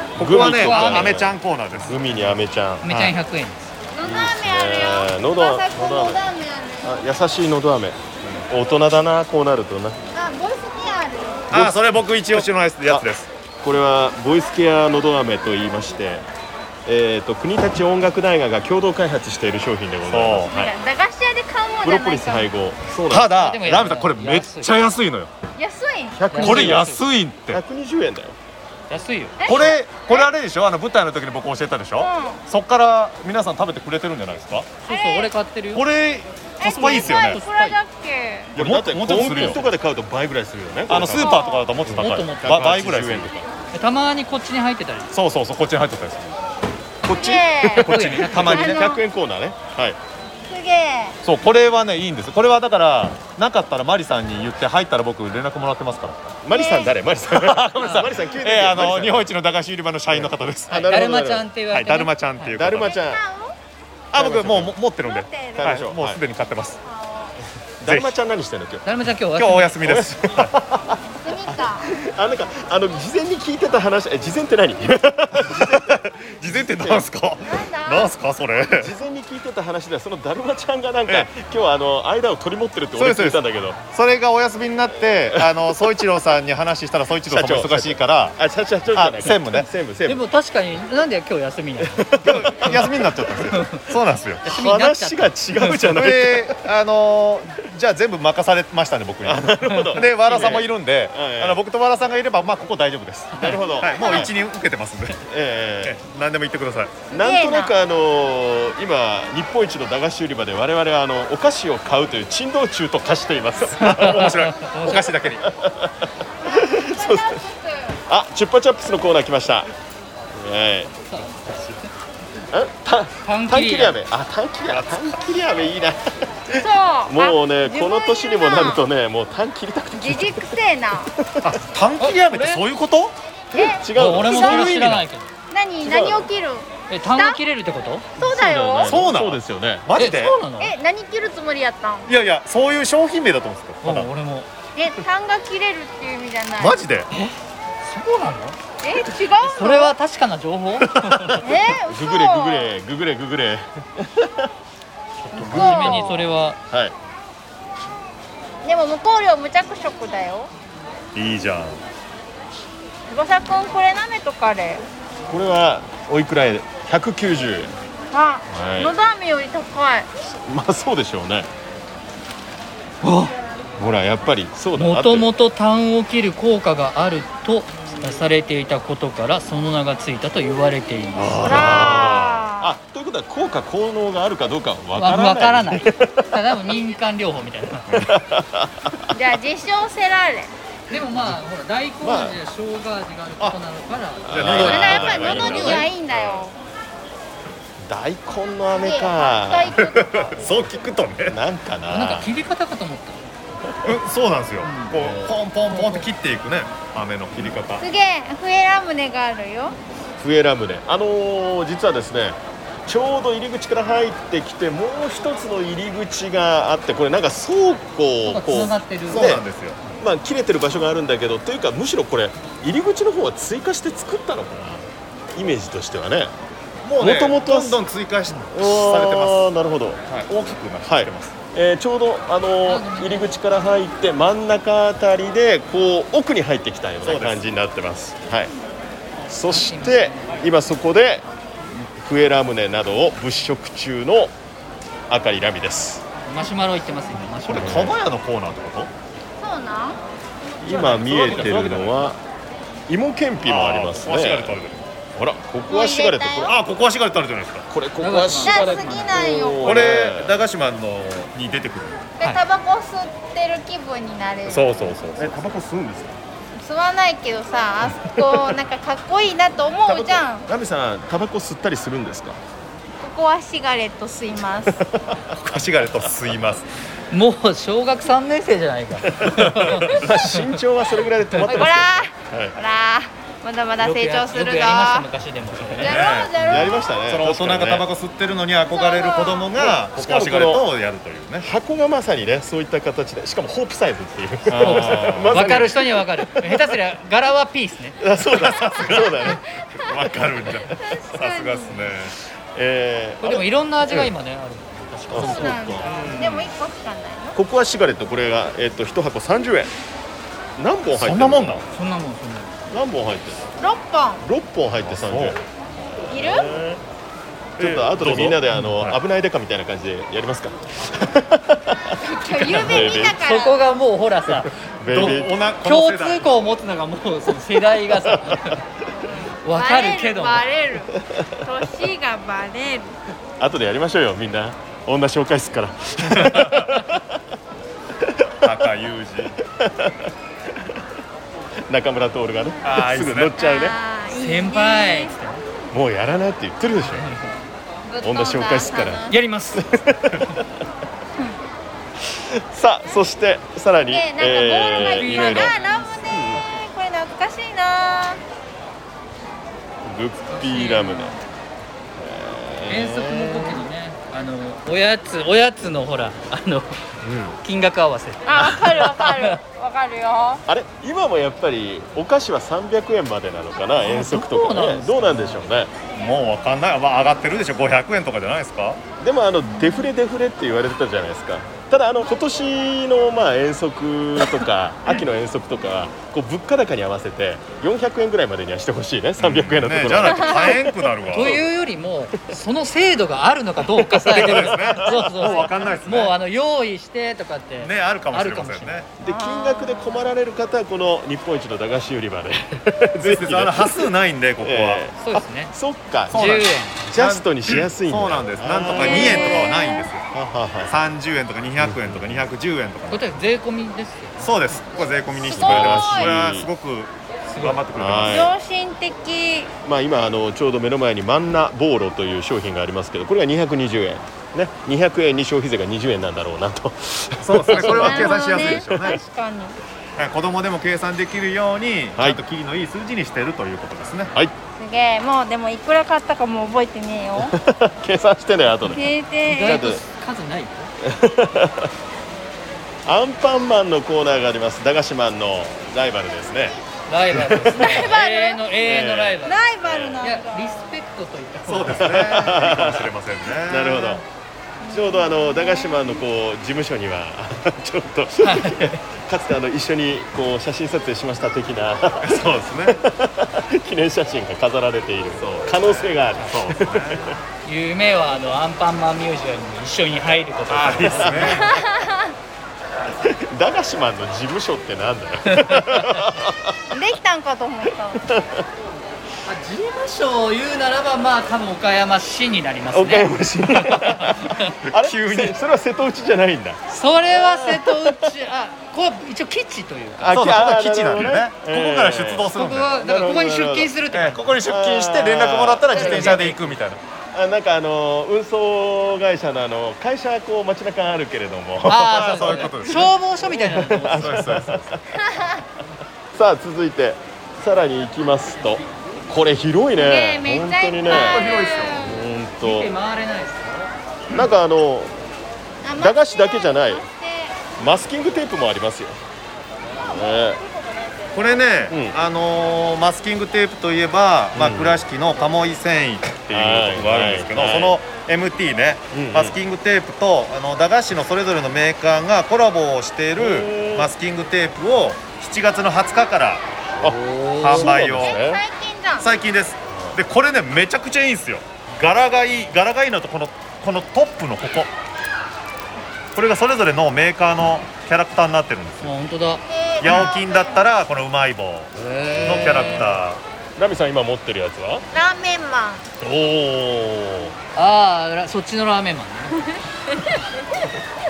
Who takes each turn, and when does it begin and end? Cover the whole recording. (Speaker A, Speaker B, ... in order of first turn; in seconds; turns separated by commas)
Speaker A: 0.2-2.3, Speaker B: 0.2-3.0, Speaker C: 0.4-1.2, Speaker C: 2.8-3.7, Speaker D: 4.0-7.0, Speaker B: 4.0-6.2, Speaker B: 6.8-10.0, Speaker D: 10.1-11.5, Speaker B: 11.5-11.8, Speaker A: 11.5-13.3, Speaker B: 12.3-13.1, Speaker B: 13.6-16.2, Speaker B: 16.9-20.7, Speaker A: 20.0-20.5, Speaker D: 20.5-22.5, Speaker B: 21.8-23.3, Speaker A: 23.1-25.3, Speaker C: 23.3-24.8, Speaker D: 25.6-26.2, Speaker B: 26.1-26.9, Speaker C: 26.3-27.1, Speaker A: 26.4-27.6, Speaker B: 27.5-28.4, Speaker C: 28.9-29.4, Speaker D: 29.4-30.3, Speaker A: 29.4-34.7, Speaker D: 32.0-32.4, Speaker C: 34.9-35.9, Speaker D: 34.9-35.3, Speaker A: 35.7-37.4, Speaker D: 36.6-38.5, Speaker C: 36.6-37.8, Speaker B: 38.5-43.5, Speaker A: 38.6-39.6, Speaker C: 39.2-39.5, Speaker A: 40.9-43.3, Speaker D: 41.1-41.7, Speaker C: 42.0-42.6, Speaker C: 43.7-45.1, Speaker A: 45.1-46.4, Speaker B: 47.0-50.0, Speaker D: 47.1-47.9, Speaker A: 47.8-48.9, Speaker C: 47.8-48.7, Speaker D: 48.5-49.0, Speaker D: 50.5-51.2, Speaker A: 51.2-56.4, Speaker B: 56.4-59.3, Speaker D: 56.5-57.0, Speaker A: 57.3-61.0, Speaker B: 60.1-61.5, Speaker C: 60.8-62.6, Speaker A: 61.7-62.9, Speaker B: 62.5-63.2, Speaker D: 62.8-63.6, Speaker A: 64.1-66.8, Speaker B: 64.1-64.8, Speaker D: 65.0-65.8, Speaker B: 65.6-66.2, Speaker D: 66.9-67.3, Speaker B: 67.8-68.8, Speaker A: 67.8-68.1, Speaker C: 68.8-69.8, Speaker A: 69.3-70.6, Speaker B: 69.8-71.0, Speaker D: 71.2-71.9, Speaker B: 71.5-77.1, Speaker A: 75.3-79.0, Speaker D: 77.4-78.1, Speaker B: 78.7-83.8, Speaker A: 83.0-88.4, Speaker B: 87.2-90.2, Speaker A: 88.9-89.7, Speaker C: 90.1-92.9, Speaker B: 91.9-92.7, Speaker A: 92.2-94.5, Speaker C: 93.5-93.9, Speaker C: 94.4-95.7, Speaker B: 94.5-96.5, Speaker A: 95.7-105.2, Speaker B: 99.2-101.6, Speaker C: 99.7-100.1, Speaker B: 103.4-104.3, Speaker D: 104.0-104.3, Speaker B: 105.3-106.0, Speaker A: 105.8-107.0, Speaker D: 107.1-107.8, Speaker B: 107.1-114.4, Speaker A: 113.7-115.5, Speaker C: 113.8-115.1, Speaker B: 115.4-117.4, Speaker D: 116.5-118.0, Speaker B: 118.1-119.7, Speaker B: 120.3-121.2, Speaker C: 121.1-121.9, Speaker B: 122.5-130.5, Speaker C: 123.2-124.0, Speaker A: 124.7-125.1, Speaker D: 126.5-128.8, Speaker D: 129.9-131.1, Speaker B: 131.2-131.5, Speaker A: 131.4-133.2, Speaker C: 132.0-132.6, Speaker D: 133.5-134.7, Speaker B: 133.5-135.0, Speaker C: 133.9-135.3, Speaker A: 134.7-135.0, Speaker D: 135.5-137.4, Speaker B: 135.8-136.3, Speaker C: 136.9-138.1, Speaker D: 138.2-138.9, Speaker B: 138.2-139.9, Speaker A: 138.9-140.4, Speaker C: 139.9-140.7, Speaker D: 140.6-142.1, Speaker A: 142.1-144.1, Speaker C: 143.8-144.5, Speaker D: 144.8-146.8, Speaker A: 146.6-147.1, Speaker C: 147.1-148.6, Speaker D: 148.8-149.9, Speaker C: 149.4-151.4, Speaker D: 151.4-152.7, Speaker B: 151.8-154.5, Speaker C: 155.3-156.6, Speaker A: 155.3-155.7, Speaker B: 155.4-156.9, Speaker D: 155.4-156.1, Speaker D: 158.6-160.5, Speaker A: 161.1-161.8, Speaker D: 163.1-164.8, Speaker B: 165.3-167.7, Speaker D: 168.1-170.1, Speaker B: 168.5-168.9, Speaker B: 170.3-171.5, Speaker C: 173.0-173.3, Speaker B: 173.8-175.3, Speaker C: 174.8-181.8, Speaker B: 181.1-186.4, Speaker D: 181.4-182.7, Speaker A: 181.5-182.3, Speaker C: 184.9-188.1, Speaker B: 187.9-189.1, Speaker D: 189.1-190.5, Speaker C: 190.9-195.8, Speaker B: 192.0-192.4, Speaker B: 194.2-195.9, Speaker A: 194.3-196.4, Speaker D: 194.4-196.6, Speaker B: 197.8-199.8, Speaker D: 198.8-200.3, Speaker A: 199.8-201.4, Speaker B: 201.3-202.3, Speaker C: 201.9-203.2, Speaker A: 203.8-207.8, Speaker C: 204.6-205.1, Speaker C: 205.7-206.1, Speaker D: 207.8-209.8, Speaker B: 210.2-219.4, Speaker C: 218.2-219.3, Speaker A: 219.1-219.8, Speaker B: 220.0-226.3, Speaker A: 226.8-229.5, Speaker B: 227.0-227.8, Speaker B: 228.5-230.0, Speaker A: 230.1-231.3, Speaker B: 230.9-238.5, Speaker C: 232.6-233.4, Speaker A: 237.0-237.4, Speaker B: 239.3-241.2, Speaker C: 239.4-240.4, Speaker B: 241.9-244.3, Speaker B: 245.1-246.0, Speaker C: 246.3-247.9, Speaker A: 247.4-248.9, Speaker B: 247.5-247.9, Speaker D: 249.4-250.0, Speaker B: 250.6-252.2, Speaker A: 250.7-252.1, Speaker B: 252.9-254.6, Speaker A: 253.4-254.8, Speaker B: 255.1-256.5, Speaker D: 255.6-256.5, Speaker A: 256.4-257.7, Speaker B: 257.7-260.4, Speaker C: 258.0-259.2, Speaker D: 258.4-259.9, Speaker A: 259.6-262.0, Speaker D: 262.2-264.9, Speaker A: 264.4-265.3, Speaker B: 265.2-266.2, Speaker D: 266.6-270.5, Speaker B: 269.9-272.4, Speaker D: 273.0-274.8, Speaker B: 274.7-275.0, Speaker A: 275.4-276.6, Speaker C: 277.1-280.5, Speaker B: 279.1-282.6, Speaker A: 279.6-279.9, Speaker C: 281.4-281.8, Speaker D: 281.4-285.1, Speaker C: 283.8-286.0, Speaker D: 285.8-287.0, Speaker A: 285.8-291.5, Speaker B: 286.4-287.9, Speaker D: 288.7-289.5, Speaker B: 289.6-290.7, Speaker B: 291.4-296.7, Speaker A: 294.5-295.7, Speaker C: 294.6-298.0, Speaker B: 298.0-299.4, Speaker A: 298.2-302.1, Speaker D: 299.6-301.9, Speaker B: 302.4-304.1, Speaker C: 303.2-305.9, Speaker B: 305.1-306.4, Speaker D: 305.1-307.4, Speaker A: 305.9-306.4, Speaker B: 307.4-309.7, Speaker B: 310.6-311.6, Speaker A: 310.9-311.6, Speaker C: 311.7-312.6, Speaker B: 312.7-313.5, Speaker D: 313.6-314.2, Speaker B: 314.2-315.4, Speaker A: 314.9-315.4, Speaker D: 316.1-316.5, Speaker B: 316.1-316.8, Speaker B: 317.6-323.2, Speaker A: 317.6-319.0, Speaker D: 322.0-323.6, Speaker C: 322.8-328.6, Speaker B: 324.8-325.4, Speaker A: 324.8-326.3, Speaker B: 328.1-328.4, Speaker D: 329.0-332.9, Speaker C: 329.4-330.5, Speaker B: 333.4-337.1, Speaker A: 336.0-336.8, Speaker B: 338.0-338.7, Speaker A: 338.4-339.4, Speaker B: 339.4-340.8, Speaker B: 341.7-343.8, Speaker A: 342.6-343.4, Speaker D: 343.4-345.1, Speaker C: 344.1-345.4, Speaker B: 345.7-347.1, Speaker C: 346.9-347.3, Speaker D: 347.9-349.1, Speaker B: 348.0-350.5, Speaker C: 349.1-349.6, Speaker B: 352.1-355.5, Speaker D: 353.9-358.2, Speaker C: 354.7-356.4, Speaker B: 356.1-356.4, Speaker B: 359.8-361.2, Speaker C: 360.3-361.2, Speaker B: 361.9-363.6, Speaker C: 362.7-366.8, Speaker B: 367.0-367.4, Speaker C: 367.4-369.4, Speaker D: 368.3-370.4, Speaker B: 370.5-375.7, Speaker C: 373.8-375.4, Speaker A: 375.9-378.8, Speaker B: 379.0-390.6, Speaker A: 389.2-391.4, Speaker D: 390.2-390.6, Speaker C: 391.1-398.8, Speaker B: 393.9-395.4, Speaker A: 394.1-396.1, Speaker A: 397.6-398.9, Speaker B: 399.0-406.2, Speaker D: 399.0-400.1, Speaker A: 403.0-404.8, Speaker C: 405.0-405.5, Speaker A: 406.1-410.1, Speaker C: 406.1-406.8, Speaker B: 406.9-409.6, Speaker D: 408.7-409.9, Speaker B: 410.1-410.8, Speaker A: 410.7-413.1, Speaker B: 411.6-412.2, Speaker C: 412.9-414.6, Speaker A: 414.2-418.3, Speaker D: 415.2-416.1, Speaker B: 415.4-416.5, Speaker C: 417.3-417.6, Speaker B: 417.7-418.3, Speaker D: 418.1-419.5, Speaker B: 419.6-428.7, Speaker A: 427.2-429.0, Speaker D: 427.5-429.6, Speaker A: 430.0-434.1, Speaker D: 434.6-437.4, Speaker B: 437.2-438.9, Speaker D: 438.7-439.6, Speaker C: 439.3-440.7, Speaker B: 439.4-439.8, Speaker B: 440.8-441.7, Speaker B: 442.9-446.6, Speaker C: 446.9-449.4, Speaker B: 447.1-447.9, Speaker D: 447.5-448.4, Speaker B: 448.6-450.0, Speaker D: 449.2-450.8, Speaker C: 450.0-452.0, Speaker A: 451.4-454.0, Speaker B: 451.8-454.0, Speaker D: 454.6-456.0, Speaker B: 454.7-467.2, Speaker C: 458.2-458.8, Speaker A: 462.0-462.8, Speaker A: 466.1-467.2, Speaker C: 467.4-471.5, Speaker A: 470.5-471.6, Speaker B: 470.9-471.5, Speaker D: 471.3-472.1, Speaker B: 473.0-476.7, Speaker C: 475.3-475.8, Speaker D: 476.7-478.0, Speaker B: 478.0-478.4, Speaker C: 479.2-484.6, Speaker B: 482.7-488.1, Speaker A: 484.6-485.4, Speaker C: 486.7-490.2, Speaker B: 490.0-493.7, Speaker A: 490.1-492.8, Speaker C: 492.4-494.2, Speaker A: 493.9-496.8, Speaker B: 494.4-496.4, Speaker C: 495.7-496.5, Speaker B: 497.1-504.9, Speaker C: 501.6-504.3, Speaker A: 501.7-502.9, Speaker A: 503.9-504.8, Speaker B: 506.1-512.7, Speaker D: 509.8-512.0, Speaker A: 510.9-511.9, Speaker C: 512.4-513.7, Speaker B: 514.1-514.9, Speaker D: 515.6-517.5, Speaker B: 515.8-516.9, Speaker B: 517.6-519.0, Speaker B: 519.8-520.4, Speaker A: 521.1-536.4, Speaker B: 521.7-522.0, Speaker B: 524.3-524.8, Speaker B: 526.3-527.8, Speaker B: 528.9-529.4, Speaker B: 533.2-533.9, Speaker B: 536.8-538.4, Speaker C: 536.8-537.6, Speaker A: 537.4-538.2, Speaker D: 538.0-539.1, Speaker A: 539.0-544.7, Speaker B: 539.7-540.0, Speaker A: 546.1-548.9, Speaker C: 548.8-549.4, Speaker D: 549.5-550.7, Speaker A: 549.8-553.2, Speaker C: 551.8-552.9, Speaker B: 552.1-552.9, Speaker B: 553.6-554.9, Speaker D: 554.9-555.9, Speaker A: 556.0-557.3, Speaker C: 557.5-559.4